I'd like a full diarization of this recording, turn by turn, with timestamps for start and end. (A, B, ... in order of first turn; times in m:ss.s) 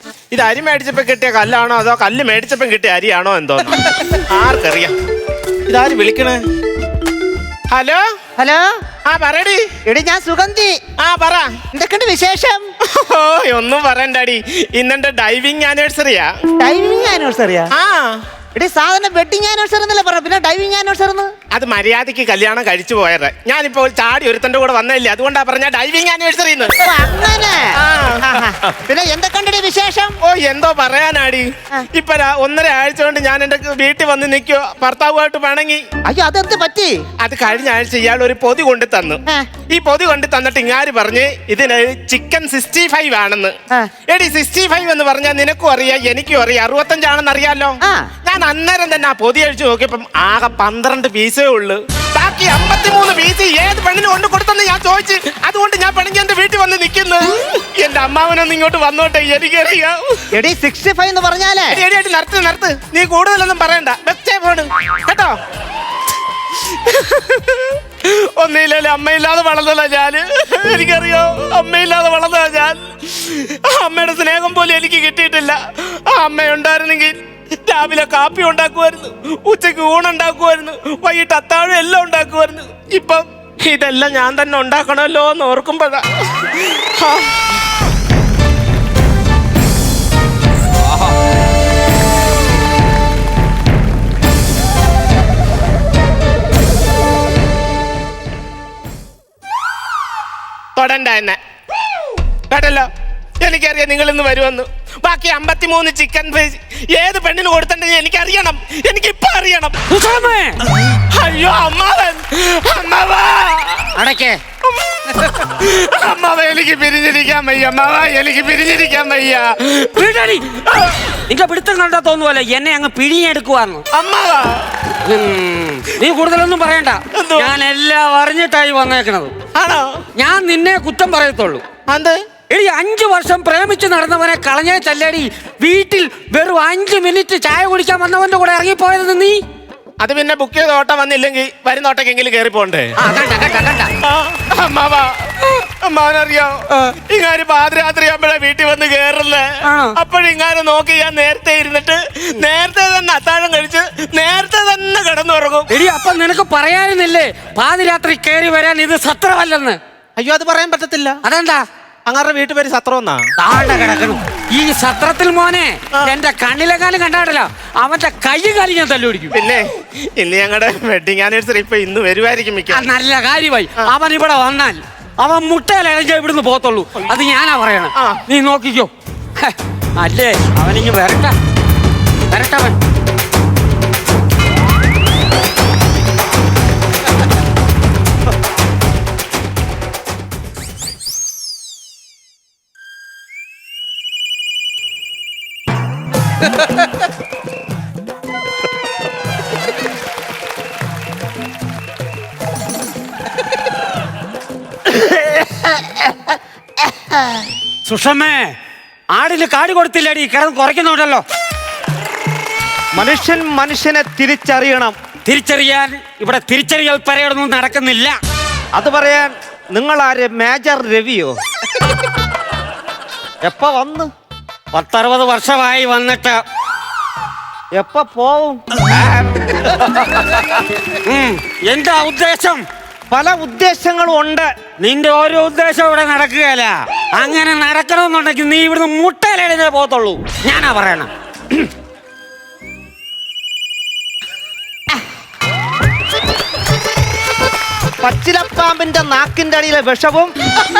0:00.3-0:04.9 A
0:05.7-0:06.4 A
0:07.7-0:08.0 A
0:08.4-0:08.7 B
0:09.1-0:09.6 A
0:09.9-0:10.8 B
0:11.0-0:11.6 A
0:11.7-0:12.7 B
0:12.8-0:16.3 A
0:16.6-0:17.7 B
0:17.7-0:18.2 A
0:18.5-0:21.3 B
0:21.5-0:26.8 A
0:26.8-0:30.2 B
0:27.8-0:28.4 A
0:30.2-0:35.8 A
0:36.0-0:36.9 B
0:37.2-0:43.5 A
0:44.1-1:00.2 A
1:00.3-1:01.8 B
1:01.7-1:05.3 A
1:06.5-1:27.4 A
1:40.8-1:41.4 A
1:42.5-1:42.9 A
1:43.4-1:49.8 A
1:49.9-1:50.6 C
1:51.0-1:54.0 A
1:53.9-1:54.4 C
1:54.7-2:00.0 A
1:59.9-2:00.4 C
2:00.6-2:01.1 A
2:01.3-2:03.8 C
2:03.9-2:04.8 A
2:05.0-2:09.3 C
2:07.1-2:07.5 A
2:09.5-2:10.0 A
2:10.2-2:11.6 C
2:11.9-2:12.2 A
2:12.5-2:19.4 C
2:20.0-2:22.9 A
2:23.0-2:23.9 C
2:24.0-2:26.6 A
2:27.1-2:35.7 A
2:29.6-2:30.0 C
2:35.7-2:39.8 C
2:40.2-2:41.2 A
2:41.2-2:41.6 C
2:42.1-2:43.2 A
2:43.4-2:49.3 C
2:49.3-2:52.9 A
2:52.7-3:01.3 C
3:02.3-3:02.8 C
3:27.8-3:28.5 C
3:29.1-3:31.2 C
3:33.0-3:35.0 B
3:35.2-3:38.2 C
3:38.7-3:41.3 B
3:43.4-3:44.1 B
3:44.7-3:46.4 C
3:47.7-3:48.6 B
3:48.9-3:52.6 C
3:53.1-3:54.5 B
3:54.8-4:01.6 C
4:08.0-4:10.3 B